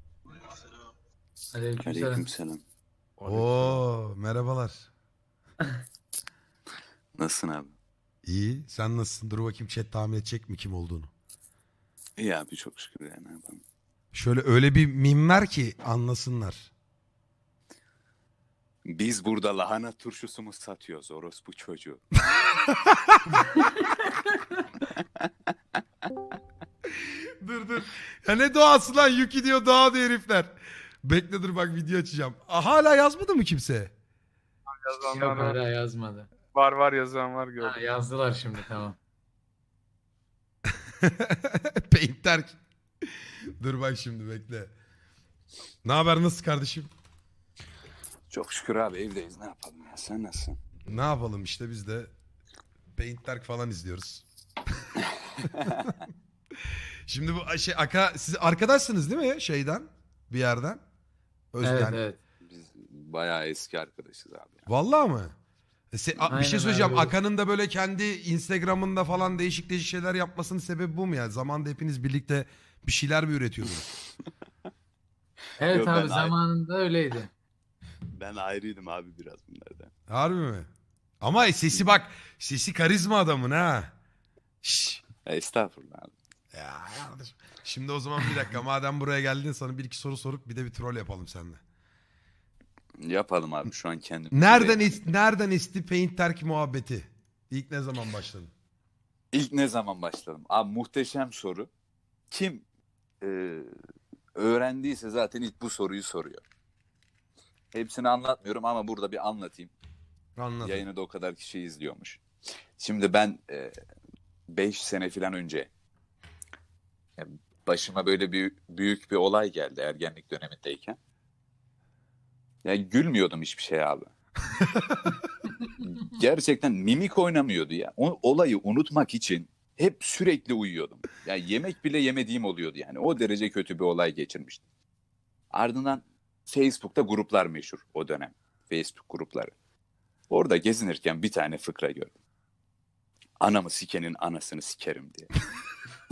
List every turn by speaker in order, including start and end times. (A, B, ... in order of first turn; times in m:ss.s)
0:01.5-0:02.3 A
0:01.8-0:02.6 B
0:03.2-0:03.8 B
0:03.2-0:04.9 C
0:07.2-0:07.7 B
0:08.2-0:11.1 C
0:12.2-0:13.6 B
0:14.1-0:16.7 C
0:18.9-0:22.0 B
0:22.2-0:23.5 C
0:24.9-0:25.3 B
0:27.0-0:33.9 C
0:34.8-0:35.6 D
0:35.1-0:36.3 A
0:36.5-0:37.8 D
0:37.6-0:39.0 A
0:41.0-0:42.6 C
0:43.6-0:44.7 C
0:45.8-0:46.9 C
0:48.3-0:50.6 B
0:50.9-0:52.1 C
0:53.0-0:54.2 C
0:55.4-0:55.8 B
0:55.6-0:56.1 C
0:57.1-1:00.8 C
1:01.5-1:02.0 C
1:01.6-1:02.2 A
1:02.4-1:04.6 B
1:04.7-1:05.3 C
1:05.9-1:13.9 C
1:06.2-1:07.2 A
1:15.6-1:17.3 A
1:15.7-1:16.3 B
1:18.1-1:19.9 B
1:20.1-1:20.7 C
1:21.2-1:23.9 C
1:24.6-1:25.0 C
1:25.2-1:26.1 B
1:26.5-1:31.6 C
1:33.0-1:35.1 B
1:34.3-1:38.5 C
1:39.3-1:41.7 B
1:42.3-1:42.6 B
1:43.2-1:43.7 B
1:44.4-1:46.4 B
1:47.7-1:49.7 B
1:50.4-1:50.9 C
1:50.6-1:52.2 B
1:52.8-1:53.7 B
1:54.5-1:55.7 B
1:57.2-2:01.0 B
2:02.6-2:04.1 B
2:04.6-2:05.2 C
2:05.8-2:14.6 B
2:15.5-2:19.5 B
2:20.3-2:22.1 B
2:23.4-2:25.3 B